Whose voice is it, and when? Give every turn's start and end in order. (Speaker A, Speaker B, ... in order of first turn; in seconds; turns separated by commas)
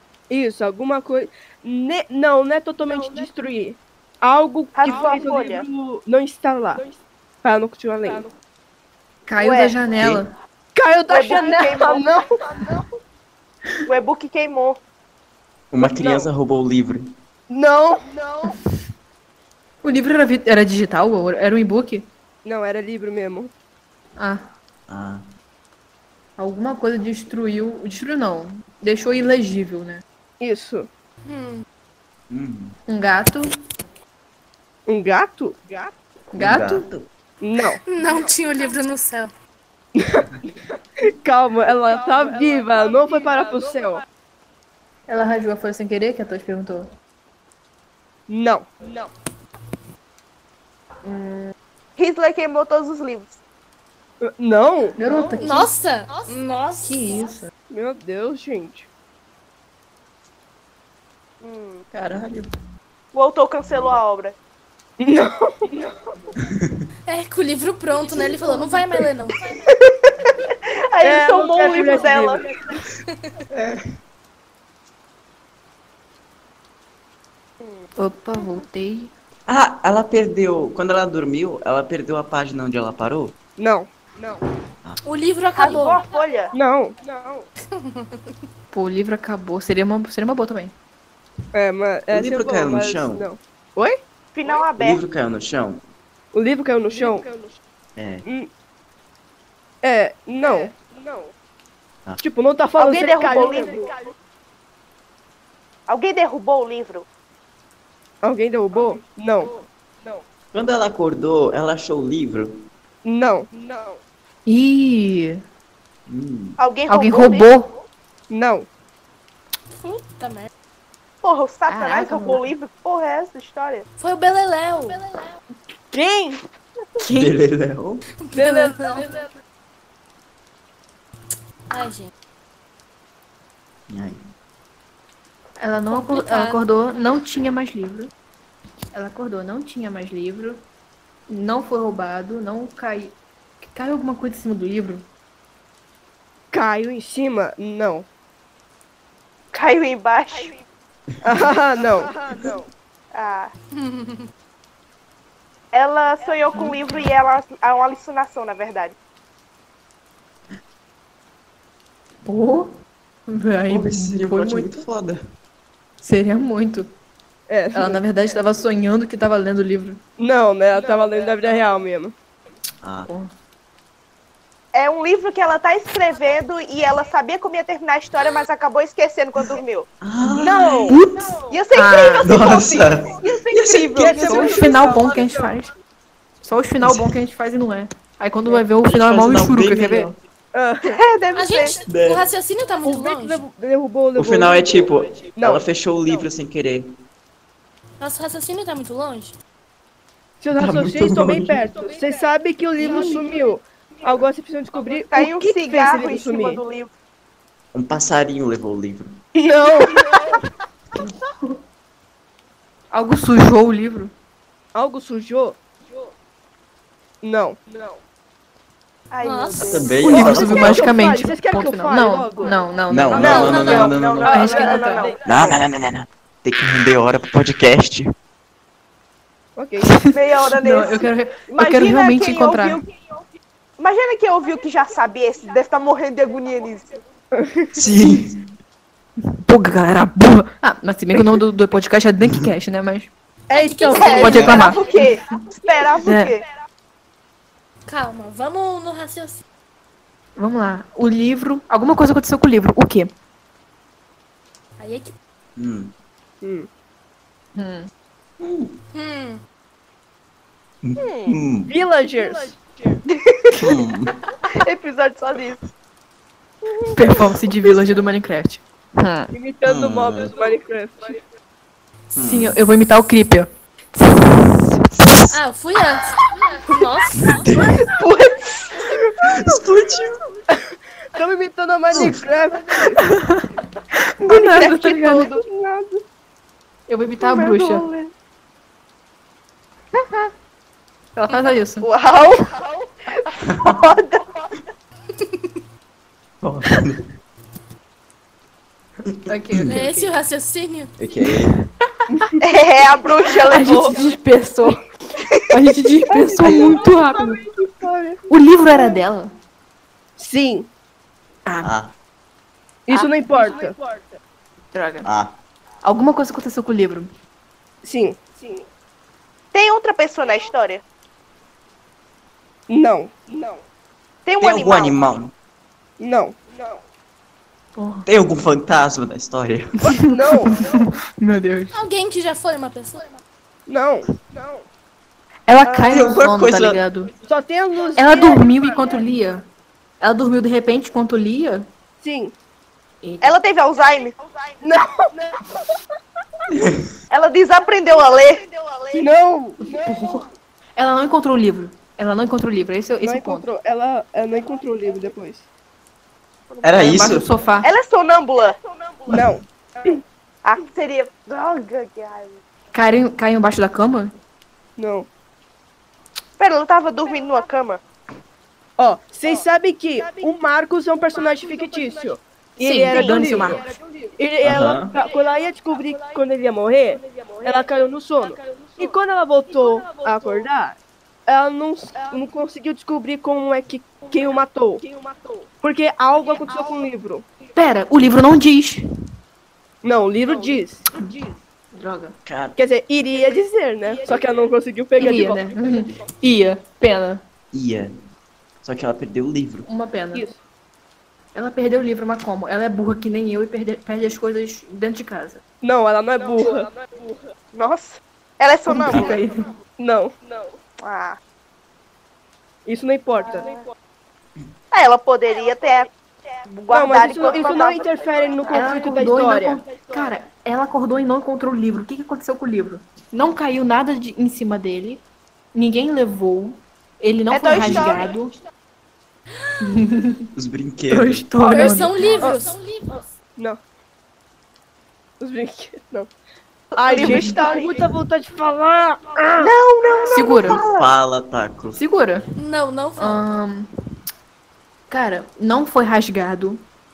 Speaker A: 0.3-6.8, Speaker B: 4.8-5.6, Speaker A: 7.4-8.3, Speaker C: 9.3-10.3, Speaker B: 9.4-9.7, Speaker A: 10.7-12.5, Speaker B: 11.1-12.0, Speaker B: 13.9-14.8, Speaker D: 15.7-17.1, Speaker A: 15.8-16.3, Speaker A: 17.5-18.2, Speaker C: 19.8-22.1, Speaker A: 22.4-23.5, Speaker C: 24.2-24.4, Speaker D: 24.9-25.2, Speaker C: 26.4-30.0, Speaker A: 30.4-30.9, Speaker E: 31.2-31.6, Speaker D: 32.3-32.8, Speaker C: 32.9-33.5, Speaker A: 34.9-35.6, Speaker C: 36.3-36.9, Speaker D: 36.4-37.1, Speaker A: 37.4-37.8, Speaker E: 37.9-39.3, Speaker A: 39.9-40.3, Speaker A: 41.0-44.0, Speaker C: 45.1-46.9, Speaker A: 48.3-48.7, Speaker C: 51.0-51.5, Speaker B: 52.0-53.4, Speaker A: 54.2-55.0, Speaker C: 55.0-55.7, Speaker E: 55.4-57.0, Speaker C: 56.8-57.5, Speaker A: 57.7-58.9, Speaker D: 61.9-62.5, Speaker B: 63.1-64.3, Speaker A: 65.0-65.9, Speaker D: 66.4-66.8, Speaker E: 67.1-69.5, Speaker B: 70.5-72.4, Speaker A: 71.0-72.6, Speaker D: 73.5-73.8, Speaker C: 78.0-79.1, Speaker D: 79.5-83.3, Speaker A: 83.6-84.4, Speaker E: 85.0-86.0, Speaker B: 85.5-86.5, Speaker A: 86.5-87.5, Speaker E: 87.7-88.3, Speaker C: 88.7-90.7, Speaker A: 91.5-94.0, Speaker D: 92.1-93.2, Speaker B: 94.3-95.0, Speaker D: 94.8-95.8, Speaker A: 96.3-97.3, Speaker D: 98.0-98.2, Speaker A: 99.8-101.0, Speaker A: 102.2-103.9, Speaker B: 102.8-103.9, Speaker B: 105.9-107.0, Speaker A: 108.2-109.5, Speaker D: 110.5-112.6, Speaker A: 113.0-113.5, Speaker C: 114.5-115.4, Speaker D: 116.1-116.6, Speaker B: 116.6-117.5, Speaker C: 116.9-117.7, Speaker A: 118.3-118.7, Speaker E: 119.7-120.5, Speaker B: 121.2-123.9, Speaker C: 121.7-122.5, Speaker E: 124.0-125.2, Speaker A: 125.9-126.4, Speaker C: 127.0-127.3, Speaker D: 127.1-128.0, Speaker E: 128.2-129.2, Speaker A: 128.3-129.0, Speaker E: 131.7-132.1, Speaker D: 133.9-134.2, Speaker C: 135.6-138.1, Speaker E: 135.9-136.6, Speaker C: 138.9-140.6, Speaker C: 141.3-145.0, Speaker A: 146.5-148.1, Speaker B: 149.5-150.6, Speaker A: 151.2-152.5, Speaker B: 153.1-153.5, Speaker E: 153.7-154.3, Speaker B: 155.7-158.9, Speaker C: 162.2-162.7, Speaker C: 163.3-164.8, Speaker D: 163.7-165.2, Speaker C: 166.0-166.9, Speaker A: 167.5-168.0, Speaker C: 167.7-170.0, Speaker A: 170.2-172.1, Speaker D: 172.8-173.1, Speaker B: 174.7-179.9, Speaker D: 180.0-180.9, Speaker A: 180.4-181.0, Speaker C: 180.9-182.3, Speaker B: 181.5-184.9, Speaker D: 182.2-184.4, Speaker A: 183.9-185.4, Speaker C: 184.3-185.7, Speaker C: 186.4-190.2, Speaker D: 186.8-187.1, Speaker D: 188.8-190.1, Speaker A: 190.5-191.0, Speaker B: 190.8-191.8, Speaker E: 191.3-193.4, Speaker D: 191.9-192.2, Speaker A: 192.8-195.7, Speaker D: 194.2-197.0, Speaker E: 198.0-199.3, Speaker A: 200.4-206.6, Speaker D: 200.5-201.6, Speaker B: 205.1-206.9, Speaker D: 207.7-209.2, Speaker A: 209.3-210.1, Speaker C: 212.9-214.1, Speaker A: 214.7-215.6, Speaker A: 217.2-217.6, Speaker B: 219.1-220.1, Speaker E: 219.2-220.3, Speaker D: 219.6-220.9, Speaker C: 220.0-225.2, Speaker A: 220.1-222.6, Speaker D: 222.9-224.5, Speaker A: 223.1-225.2, Speaker E: 223.2-223.9, Speaker B: 223.2-225.6, Speaker D: 225.2-228.1, Speaker A: 229.6-230.1, Speaker C: 229.8-232.8, Speaker B: 230.1-232.9, Speaker B: 233.8-236.9, Speaker A: 237.3-237.7, Speaker D: 237.7-238.4, Speaker C: 239.4-243.1, Speaker A: 243.5-244.6, Speaker E: 243.5-244.6, Speaker B: 243.8-246.4, Speaker C: 243.9-244.9, Speaker D: 244.3-244.7, Speaker C: 246.0-246.3, Speaker E: 247.8-249.4, Speaker C: 250.4-253.1, Speaker E: 254.8-255.1, Speaker D: 255.6-255.9, Speaker A: 256.4-256.7, Speaker C: 257.6-257.9, Speaker D: 258.4-258.8, Speaker E: 258.9-259.4, Speaker D: 260.8-261.7, Speaker B: 261.0-261.4, Speaker A: 261.6-262.6, Speaker D: 263.6-264.1, Speaker B: 264.5-265.6, Speaker A: 266.6-266.9, Speaker C: 266.9-269.3, Speaker A: 269.3-271.2, Speaker D: 269.6-270.3, Speaker D: 272.1-272.6, Speaker C: 272.1-273.5, Speaker C: 274.0-274.8, Speaker D: 274.9-275.4, Speaker E: 275.3-277.5, Speaker D: 277.2-277.8, Speaker A: 278.0-278.4, Speaker D: 279.2-280.2, Speaker A: 280.5-283.0, Speaker D: 281.9-282.2, Speaker C: 283.0-285.3, Speaker B: 284.3-285.4, Speaker A: 285.3-286.0, Speaker C: 286.9-287.9, Speaker B: 287.2-288.1, Speaker C: 289.9-290.3, Speaker C: 291.1-291.9, Speaker B: 291.8-292.7, Speaker B: 293.2-294.5, Speaker D: 293.4-293.8, Speaker E: 295.2-295.4, Speaker D: 296.4-297.1, Speaker D: 299.0-299.8, Speaker C: 299.3-300.1, Speaker E: 299.7-300.9, Speaker D: 301.0-301.5, Speaker A: 302.1-302.4, Speaker B: 302.4-303.9, Speaker C: 303.4-304.8, Speaker C: 305.5-307.4, Speaker A: 306.1-308.2, Speaker C: 308.3-309.3, Speaker A: 310.2-310.7, Speaker C: 311.4-311.7, Speaker D: 311.6-311.9, Speaker A: 312.9-313.8, Speaker C: 314.7-315.1, Speaker D: 315.0-315.3, Speaker C: 315.8-317.1, Speaker A: 317.8-318.6, Speaker B: 319.5-320.8, Speaker A: 322.7-323.5, Speaker B: 324.2-325.0, Speaker D: 324.4-325.3, Speaker A: 326.0-326.4, Speaker C: 327.8-328.1, Speaker D: 328.1-329.9, Speaker C: 329.9-331.8, Speaker A: 330.0-330.6, Speaker E: 331.7-333.1, Speaker A: 333.7-334.6, Speaker C: 335.5-337.1, Speaker B: 335.6-336.0, Speaker D: 335.8-336.8, Speaker A: 337.3-338.6, Speaker C: 337.9-339.4, Speaker C: 340.0-341.7, Speaker A: 342.0-342.3, Speaker C: 343.0-343.3, Speaker B: 343.2-344.1, Speaker A: 344.6-345.4, Speaker D: 346.5-346.9, Speaker B: 347.1-348.9, Speaker A: 348.9-349.7, Speaker C: 349.6-350.2, Speaker C: 350.8-353.5, Speaker A: 353.0-355.4, Speaker B: 356.5-357.1, Speaker D: 356.6-357.3, Speaker C: 356.8-357.7, Speaker B: 357.6-358.6, Speaker A: 359.1-360.0, Speaker B: 360.4-362.4, Speaker C: 362.7-364.1, Speaker A: 364.8-365.1, Speaker B: 366.4-367.8, Speaker A: 368.8-373.7, Speaker C: 372.6-373.6, Speaker B: 372.9-373.2, Speaker A: 374.2-380.8, Speaker D: 374.4-374.9, Speaker A: 381.3-384.9, Speaker A: 385.6-387.2, Speaker C: 387.5-388.8, Speaker A: 389.8-390.9, Speaker C: 391.8-392.1, Speaker D: 392.2-392.6, Speaker A: 392.6-395.6, Speaker C: 395.0-397.2, Speaker D: 397.5-397.9, Speaker D: 398.6-399.7, Speaker C: 399.7-400.3, Speaker C: 401.3-405.4, Speaker A: 405.6-406.7, Speaker B: 407.5-409.2, Speaker C: 408.7-409.4, Speaker A: 409.8-410.1, Speaker B: 410.8-411.2, Speaker A: 412.6-413.5, Speaker B: 414.7-415.9, Speaker B: 416.5-417.9, Speaker A: 416.7-419.6, Speaker C: 418.5-428.3, Speaker B: 427.3-428.1, Speaker D: 427.5-428.1, Speaker C: 429.6-430.3, Speaker D: 430.4-431.3, Speaker C: 430.9-432.3, Speaker E: 431.4-433.0, Speaker A: 432.2-432.6, Speaker A: 435.2-436.1, Speaker B: 436.7-437.8, Speaker A: 436.8-439.5, Speaker C: 436.9-437.4, Speaker B: 439.4-440.9, Speaker C: 440.1-440.6, Speaker D: 440.4-441.8, Speaker C: 441.8-442.2, Speaker E: 442.4-443.2, Speaker C: 443.0-443.7, Speaker C: 444.9-446.6